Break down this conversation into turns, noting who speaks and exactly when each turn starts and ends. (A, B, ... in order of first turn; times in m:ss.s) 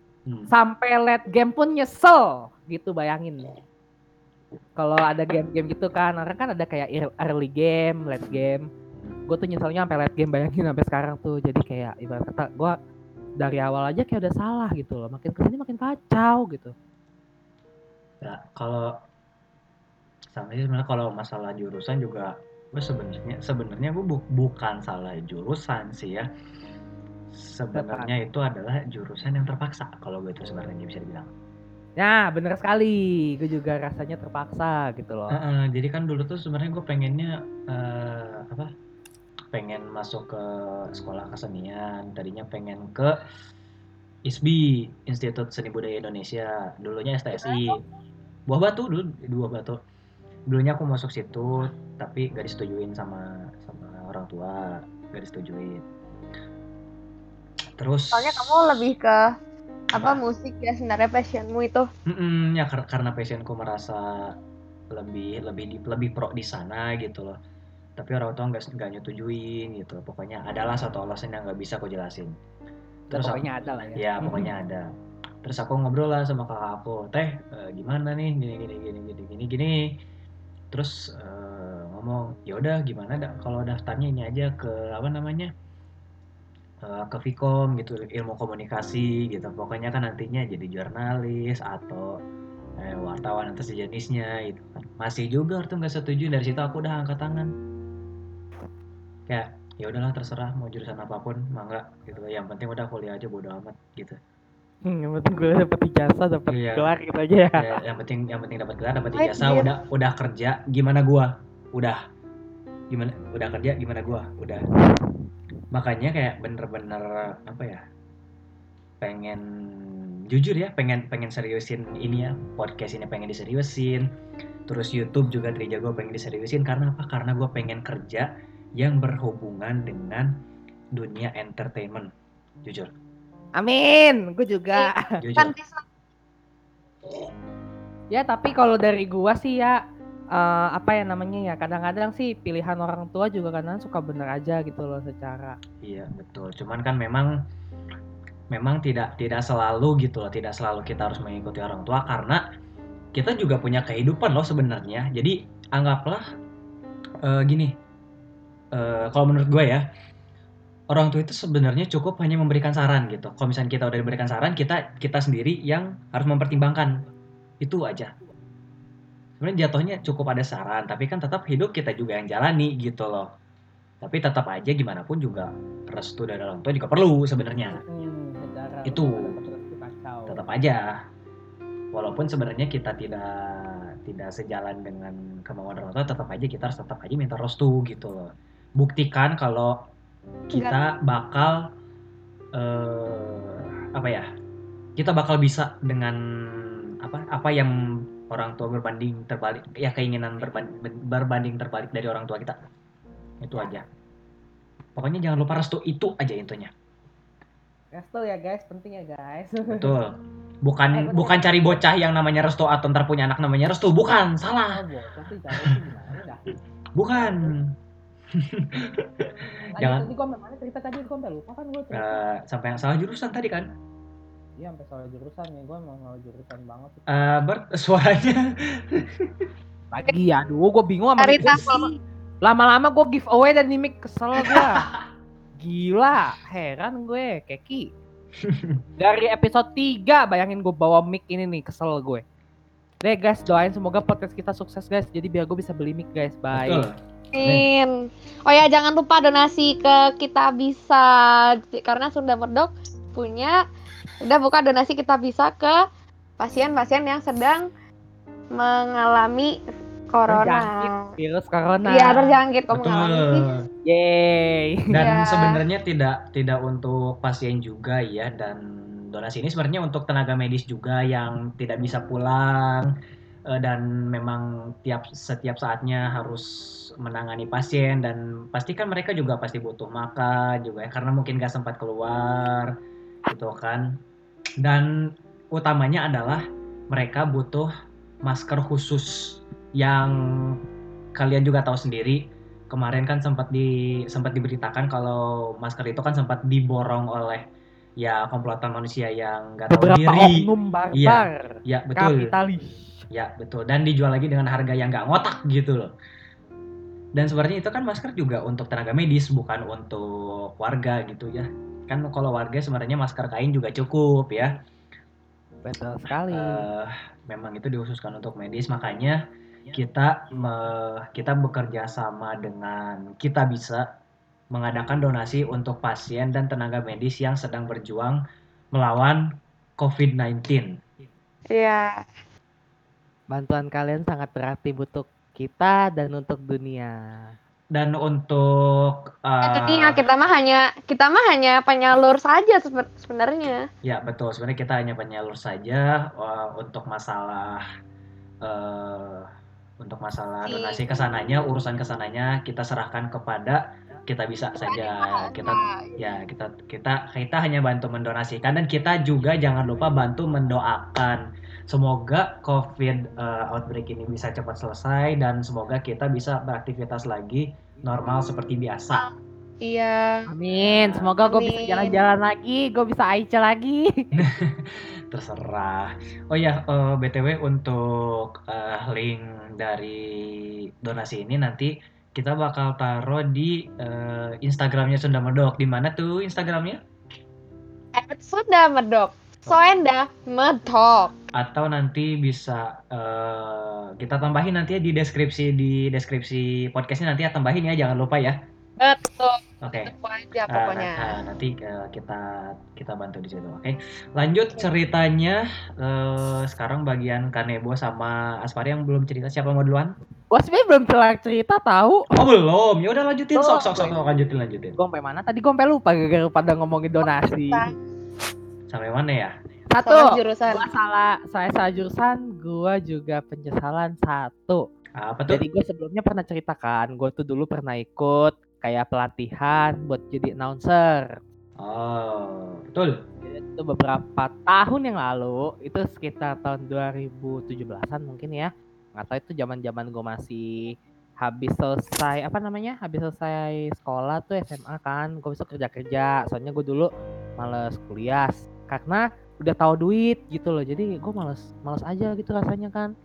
0:00.5-0:03.5 A
0:04.8-0:08.7 A
0:09.3-0:12.8 A
0:13.4-0:16.7 A
0:18.2-0:18.9 B
0:20.3-0:26.3 B
0:27.3-0:31.3 B
0:27.8-0:28.1 A
0:30.4-0:30.7 A
0:32.0-0:35.4 A
0:35.3-0:38.7 B
0:39.5-0:43.1 B
0:44.3-0:47.8 B
0:48.5-0:49.8 B
0:50.5-0:55.9 B
0:57.8-0:58.4 B
0:58.1-0:59.3 C
0:59.9-1:01.9 C
1:02.1-1:04.1 B
1:04.9-1:07.4 B
1:08.0-1:12.3 B
1:13.1-1:14.4 A
1:13.1-1:14.8 B
1:15.4-1:19.8 B
1:20.7-1:25.5 B
1:26.8-1:32.1 B
1:32.8-1:37.5 B
1:39.3-1:44.2 B
1:44.9-1:47.7 A
1:46.5-1:46.9 B
1:47.6-1:52.0 B
1:49.2-1:49.7 C
1:52.9-1:54.6 B
1:55.7-1:57.8 B
1:59.0-2:04.0 B
2:04.7-2:10.3 B
2:11.0-2:12.1 B
2:13.6-2:15.0 A
2:14.8-2:15.8 C
2:15.2-2:15.5 B
2:18.1-2:19.8 A
2:20.4-2:25.6 A
2:25.8-2:27.3 B
2:28.5-2:32.4 B
2:33.2-2:36.2 B
2:37.2-2:37.8 B
2:38.8-2:39.8 B
2:40.9-2:47.0 B
2:47.6-2:48.1 B
2:49.4-2:53.3 B
2:54.0-2:57.8 B
2:57.7-3:00.4 A
2:58.9-2:59.4 B
3:00.3-3:00.9 B
3:01.9-3:08.3 B
3:08.8-3:09.7 B
3:10.5-3:11.6 B
3:12.6-3:14.3 B
3:15.0-3:17.8 B
3:18.3-3:22.6 B
3:23.4-3:23.8 B
3:25.0-3:26.7 B
3:27.9-3:29.9 A
3:29.7-3:34.8 B
3:30.9-3:31.8 A
3:34.7-3:36.4 A
3:37.0-3:37.7 B
3:37.2-3:37.5 A
3:38.4-3:40.1 B
3:39.7-3:42.2 A
3:41.9-3:43.7 B
3:44.6-3:47.1 A
3:47.1-3:49.5 B
3:49.9-3:51.9 A
3:51.2-3:51.9 C
3:52.4-3:54.9 A
3:54.4-3:55.0 B
3:55.6-3:57.9 A
3:58.4-3:58.8 B
3:59.0-4:02.2 A
4:03.0-4:06.8 A
4:06.5-4:06.9 B
4:07.3-4:13.6 C
4:14.2-4:15.8 C
4:16.4-4:17.7 C
4:18.5-4:21.1 C
4:20.3-4:22.4 A
4:21.9-4:23.5 C
4:22.7-4:23.6 B
4:23.9-4:24.9 A
4:24.9-4:32.9 B
4:24.9-4:25.6 C
4:33.5-4:36.5 B
4:37.0-4:42.7 B
4:43.3-4:43.9 B
4:44.6-4:44.9 B
4:45.5-4:47.7 B
4:48.3-4:50.6 B
4:51.2-4:57.4 B
4:58.0-5:02.3 B
4:59.7-5:02.8 A
5:03.1-5:05.9 B
5:07.2-5:14.6 B
5:15.6-5:16.6 A
5:16.3-5:19.2 B
5:19.7-5:23.8 B
5:24.5-5:28.2 B
5:28.7-5:29.2 B
5:29.8-5:30.8 B
5:31.5-5:32.0 C
5:33.3-5:37.3 A
5:37.7-5:40.0 B
5:39.4-5:43.6 C
5:43.8-5:47.6 B
5:48.4-5:49.3 B
5:49.8-6:09.0 B
5:50.5-5:50.9 C
5:54.6-5:56.1 C
6:09.6-6:10.3 C
6:10.3-6:13.9 A
6:10.5-6:11.1 B
6:11.2-6:12.0 C
6:14.2-6:26.8 B
6:28.0-6:31.1 C
6:31.4-6:38.4 B
6:38.8-6:41.2 C
6:39.6-6:39.9 B
6:40.5-6:49.9 B
6:50.3-6:52.0 A
6:52.2-6:54.8 B
6:53.5-6:53.8 A
6:54.8-6:57.7 A
6:57.0-6:57.7 C
6:58.7-6:59.3 B
6:59.7-7:04.6 A
6:59.8-7:00.6 C
7:05.0-7:05.4 B
7:05.3-7:11.1 A
7:11.6-7:13.0 B
7:13.2-7:32.9 A